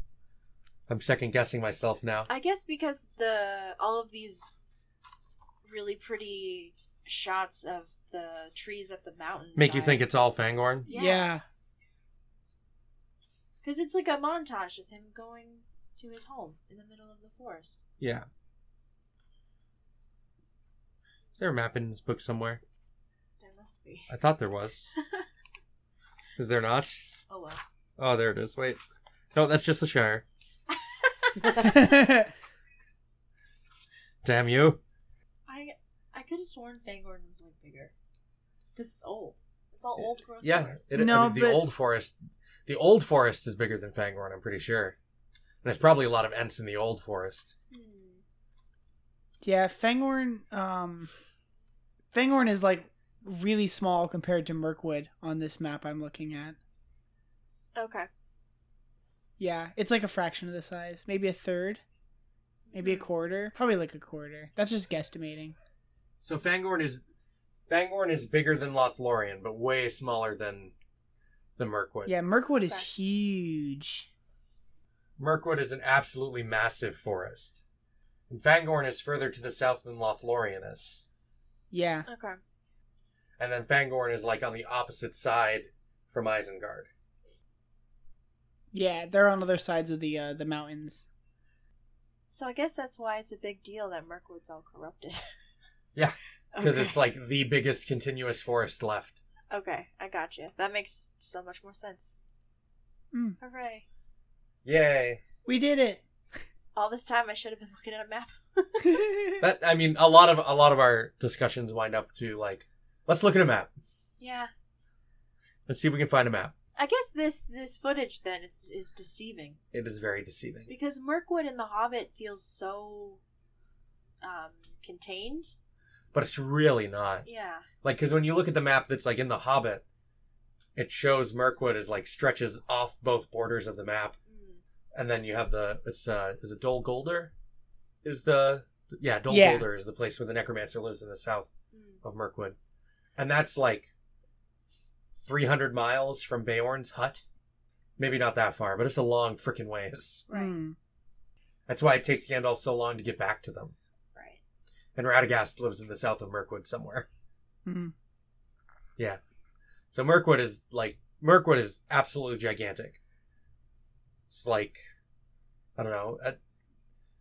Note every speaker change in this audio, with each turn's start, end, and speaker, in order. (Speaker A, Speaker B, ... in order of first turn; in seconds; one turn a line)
Speaker A: 0.9-2.3
Speaker B: 2.3-4.5
Speaker B: 5.6-10.0
Speaker A: 9.6-10.9
Speaker B: 10.8-11.3
Speaker C: 10.9-11.4
Speaker B: 13.6-17.8
Speaker A: 18.0-18.3
Speaker A: 21.3-22.6
Speaker B: 23.4-24.1
Speaker A: 24.1-24.9
Speaker B: 24.9-25.2
Speaker A: 26.4-27.1
Speaker B: 27.3-27.6
Speaker A: 28.0-28.8
Speaker A: 29.3-30.2
Speaker B: 30.7-31.8
Speaker C: 31.5-32.3
Speaker A: 34.2-34.8
Speaker B: 35.5-37.9
Speaker B: 38.8-40.9
Speaker A: 40.4-45.0
Speaker C: 40.9-41.6
Speaker A: 45.6-47.5
Speaker B: 47.7-48.2
Speaker C: 49.4-51.1
Speaker C: 52.1-56.6
Speaker B: 57.8-58.1
Speaker C: 59.4-61.8
Speaker B: 62.7-63.1
Speaker C: 62.7-65.5
Speaker A: 66.2-67.0
Speaker A: 67.7-70.7
Speaker A: 71.6-72.1
Speaker C: 72.0-74.1
Speaker A: 75.2-77.6
Speaker A: 78.3-81.0
Speaker C: 81.7-82.1
Speaker B: 82.1-82.4
Speaker A: 83.4-86.9
Speaker C: 88.7-91.0
Speaker B: 92.3-95.3
Speaker A: 95.9-99.2
Speaker B: 96.5-97.0
Speaker B: 99.5-102.2
Speaker B: 103.4-103.8
Speaker A: 104.6-105.2
Speaker C: 105.5-106.0
Speaker B: 106.7-109.0
Speaker C: 108.9-109.4
Speaker A: 109.4-113.7
Speaker B: 114.2-114.5
Speaker A: 115.7-116.5
Speaker B: 116.8-119.6
Speaker A: 119.7-120.7
Speaker B: 120.7-123.2
Speaker B: 124.2-125.5
Speaker A: 126.1-127.3
Speaker B: 127.2-127.7
Speaker A: 127.8-129.8
Speaker A: 130.8-134.2
Speaker B: 134.3-134.6
Speaker A: 134.9-137.3
Speaker A: 138.0-142.6
Speaker C: 139.3-139.7
Speaker B: 141.7-142.0
Speaker A: 143.2-143.9
Speaker A: 145.2-147.2
Speaker A: 148.0-150.2
Speaker B: 150.3-150.6
Speaker C: 150.3-150.8
Speaker A: 151.7-153.7
Speaker B: 154.1-154.4
Speaker A: 154.9-157.1
Speaker C: 157.7-157.9
Speaker A: 159.9-163.0
Speaker A: 164.3-164.8
Speaker A: 165.8-166.4